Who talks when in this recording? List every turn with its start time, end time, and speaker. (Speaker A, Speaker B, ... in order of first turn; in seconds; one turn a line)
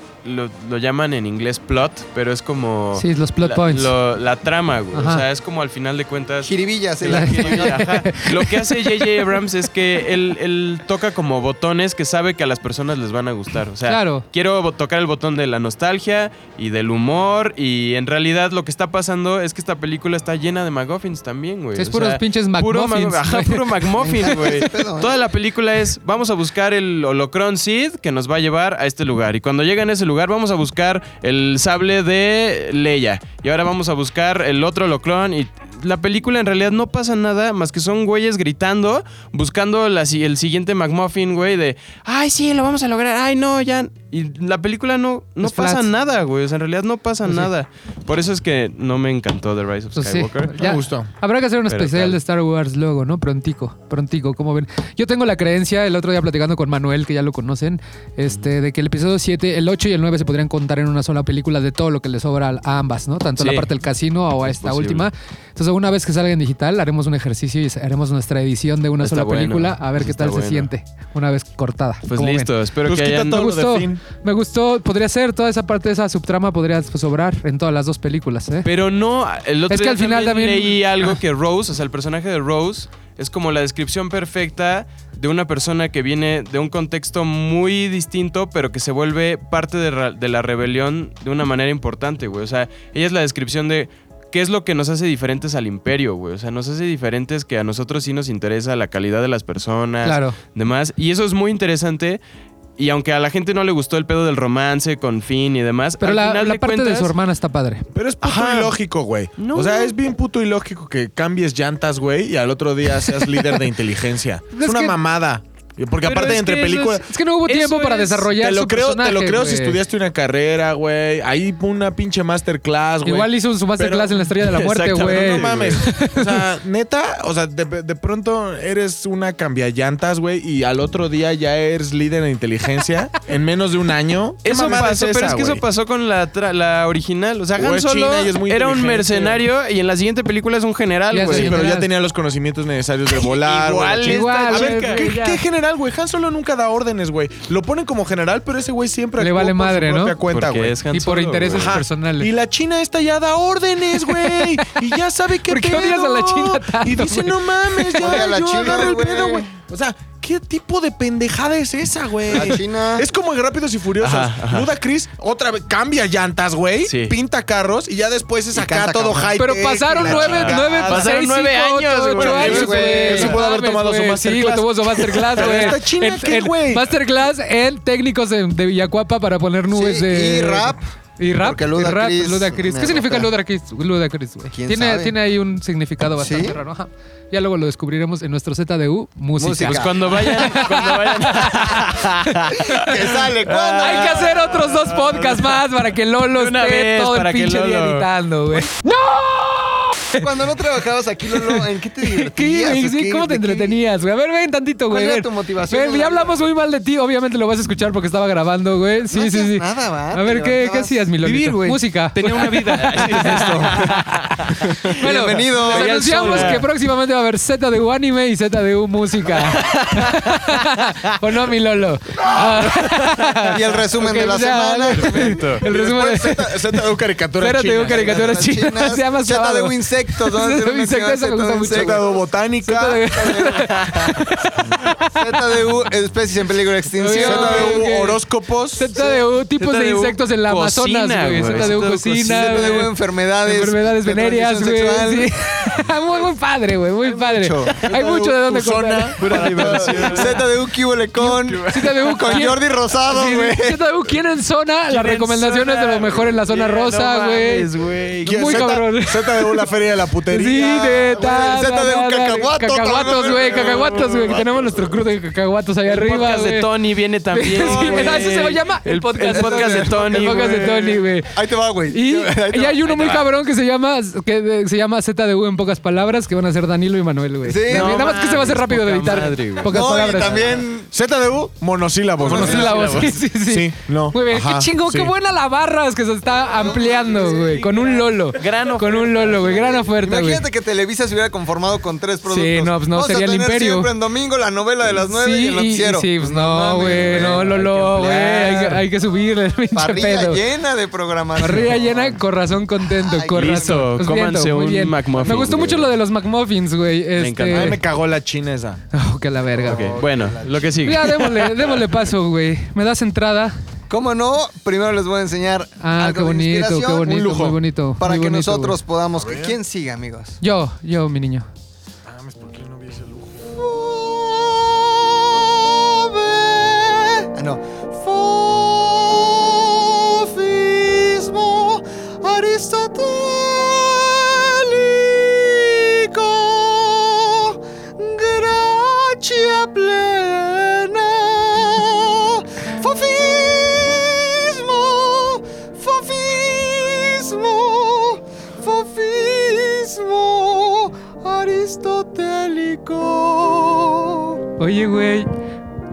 Speaker A: 0.2-50.6
Speaker B: 3.0-3.9
Speaker B: 4.9-5.2
Speaker C: 6.4-7.9
Speaker B: 7.1-9.1
Speaker B: 13.9-14.2
Speaker B: 21.8-23.7
Speaker C: 24.0-25.2
Speaker B: 24.2-24.6
Speaker B: 45.4-45.9
Speaker B: 50.0-72.5
Speaker D: 50.6-51.1
Speaker A: 51.7-52.2
Speaker A: 63.4-63.7
Speaker A: 64.4-65.1
Speaker A: 69.0-70.7
Speaker A: 72.1-73.5
Speaker D: 72.8-74.0
Speaker B: 73.3-78.7
Speaker A: 78.6-102.2
Speaker B: 79.7-81.2
Speaker B: 100.0-100.4
Speaker A: 102.8-107.1
Speaker B: 106.0-107.9
Speaker D: 107.9-135.6
Speaker A: 108.2-108.8
Speaker A: 109.4-110.0
Speaker B: 114.5-115.0
Speaker A: 116.0-118.2
Speaker B: 117.0-119.8
Speaker B: 123.0-126.4
Speaker A: 124.8-125.8
Speaker A: 134.4-141.7
Speaker D: 137.6-139.4
Speaker B: 141.1-141.9
Speaker D: 141.2-150.8
Speaker A: 143.2-145.4
Speaker B: 144.1-145.3
Speaker B: 149.2-150.2
Speaker A: 150.3-151.8
Speaker B: 150.9-152.3
Speaker D: 151.5-171.1
Speaker B: 154.0-154.8
Speaker B: 155.5-159.2
Speaker C: 158.0-159.4
Speaker C: 162.3-163.1
Speaker A: 164.0-164.7
Speaker A: 166.9-167.2
Speaker C: 168.5-169.3
Speaker B: 169.4-192.9
Speaker A: 170.1-173.1
Speaker D: 172.2-176.9
Speaker C: 172.4-173.3
Speaker A: 175.4-175.7
Speaker C: 179.7-180.8
Speaker C: 181.4-183.3
Speaker C: 184.5-185.2
Speaker C: 186.2-186.6
Speaker C: 189.4-191.7
Speaker A: 189.6-195.6
Speaker C: 192.6-194.9
Speaker B: 193.8-200.3
Speaker A: 196.3-198.1
Speaker C: 200.2-203.8
Speaker B: 201.3-214.0
Speaker C: 204.9-206.4
Speaker C: 209.1-211.1
Speaker A: 211.2-215.0
Speaker D: 213.1-213.7
Speaker C: 214.9-216.6
Speaker B: 215.0-226.8
Speaker A: 215.5-216.6
Speaker A: 219.4-220.6
Speaker A: 222.7-223.4
Speaker C: 223.4-225.7
Speaker A: 225.1-225.6
Speaker D: 225.6-228.5
Speaker B: 227.4-232.1
Speaker C: 227.8-232.1
Speaker D: 231.7-233.3
Speaker B: 232.6-235.4
Speaker C: 233.1-233.7
Speaker C: 234.6-237.8
Speaker B: 237.0-238.2
Speaker D: 237.2-238.9
Speaker B: 238.8-242.9
Speaker A: 239.6-242.8
Speaker C: 241.6-245.7
Speaker B: 243.4-249.2
Speaker C: 247.0-247.8
Speaker D: 247.8-250.4
Speaker A: 249.2-250.4
Speaker C: 249.3-253.8
Speaker B: 251.2-257.7
Speaker A: 251.4-252.4
Speaker A: 254.9-258.7
Speaker D: 258.2-260.9
Speaker B: 258.3-259.7
Speaker B: 260.3-266.7
Speaker C: 260.6-264.8
Speaker A: 265.9-271.0
Speaker B: 267.3-271.4
Speaker C: 267.6-268.3
Speaker C: 269.3-270.3
Speaker C: 271.3-272.8
Speaker B: 271.9-280.5
Speaker A: 272.9-273.3
Speaker C: 277.4-278.1
Speaker A: 277.7-280.5
Speaker C: 279.6-280.9
Speaker D: 280.9-285.1
Speaker A: 282.2-283.2
Speaker B: 282.2-290.4
Speaker C: 286.6-288.1
Speaker A: 288.4-289.8
Speaker C: 289.4-297.6
Speaker B: 292.3-293.9
Speaker B: 294.9-300.4
Speaker A: 296.9-298.8
Speaker C: 299.7-302.2
Speaker B: 301.4-307.8
Speaker C: 302.9-303.9
Speaker A: 303.3-305.9
Speaker A: 307.2-307.8
Speaker D: 307.5-308.8
Speaker B: 308.9-309.9
Speaker C: 309.5-311.0
Speaker A: 309.6-311.5
Speaker B: 310.8-313.6
Speaker C: 313.9-317.2
Speaker B: 315.8-318.8
Speaker D: 317.0-317.6
Speaker C: 318.0-320.4
Speaker D: 319.2-319.6
Speaker B: 320.4-321.5
Speaker D: 322.1-323.5
Speaker C: 323.5-354.4
Speaker B: 354.6-355.3